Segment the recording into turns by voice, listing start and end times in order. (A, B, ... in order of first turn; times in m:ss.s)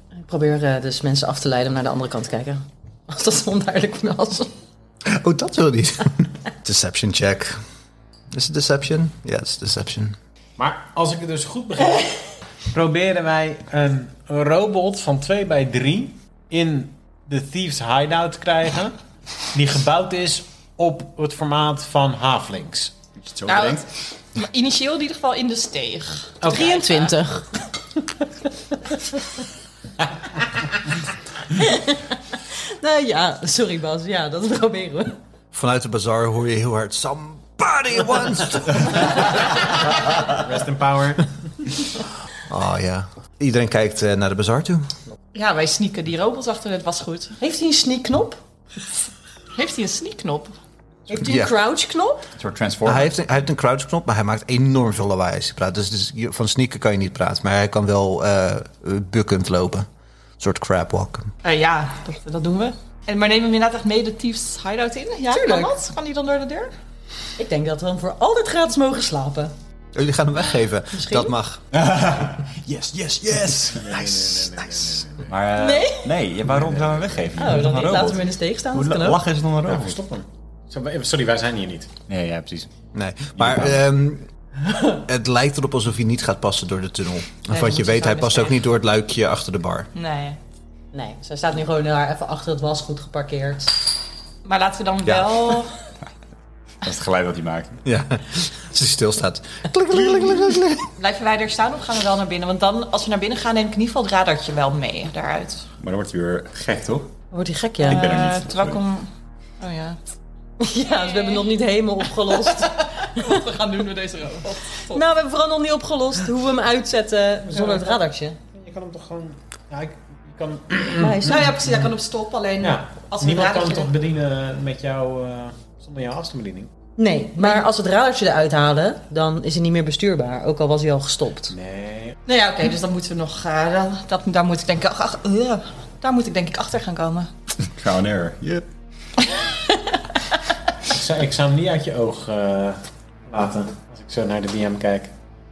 0:00.2-0:04.5 A
0:05.0-0:07.6 B
0:08.3-0:10.2 B
0:10.6-0:12.1 C
0:12.7-0:19.0 C
0:19.5-0:22.9 C
0:23.2-0:23.9 D
0:23.5-0:27.2 E
0:26.4-0:26.7 C
0:26.4-0:28.1 A
0:31.5-0:35.2 A
0:35.5-0:39.6 B
0:39.8-0:41.8 C
0:42.4-0:44.9 B
0:45.3-0:47.4 E
0:47.4-0:48.4 A
0:49.5-0:50.5 E
0:51.1-0:52.2 A
0:51.1-0:51.6 B
0:52.4-0:53.1 D
0:52.8-0:59.9 B
1:00.4-1:01.3 B
1:01.4-1:06.7 E
1:05.3-1:05.7 A
1:07.4-1:09.5 A
1:09.9-1:11.6 B
1:10.9-1:11.3 A
1:11.7-1:14.2 D
1:13.7-1:15.3 C
1:15.2-1:20.0 D
1:15.6-1:16.1 A
1:16.6-1:17.1 C
1:17.4-1:19.2 A
1:19.6-1:21.9 C
1:22.1-1:22.7 D
1:22.9-1:24.3 B
1:23.4-1:23.8 D
1:24.9-1:29.9 B
1:27.5-1:28.5 E
1:29.9-1:30.4 E
1:30.9-1:33.8 A
1:34.4-1:35.8 E
1:35.0-1:35.4 B
1:36.8-1:37.8 D
1:37.8-1:40.9 B
1:41.0-1:45.7 E
1:45.8-1:47.1 D
1:47.3-1:48.0 A
1:47.8-1:48.8 D
1:47.8-1:50.0 E
1:50.6-1:53.4 A
1:50.8-1:51.6 E
1:52.2-1:55.0 E
1:54.9-1:58.4 A
1:57.5-1:57.9 C
1:58.5-2:01.8 C
2:01.0-2:01.5 A
2:01.2-2:03.9 E
2:02.6-2:06.7 C
2:07.0-2:11.5 A
2:07.4-2:07.7 E
2:11.5-2:12.2 C
2:12.2-2:17.3 E
2:17.6-2:18.6 D
2:20.8-2:25.1 C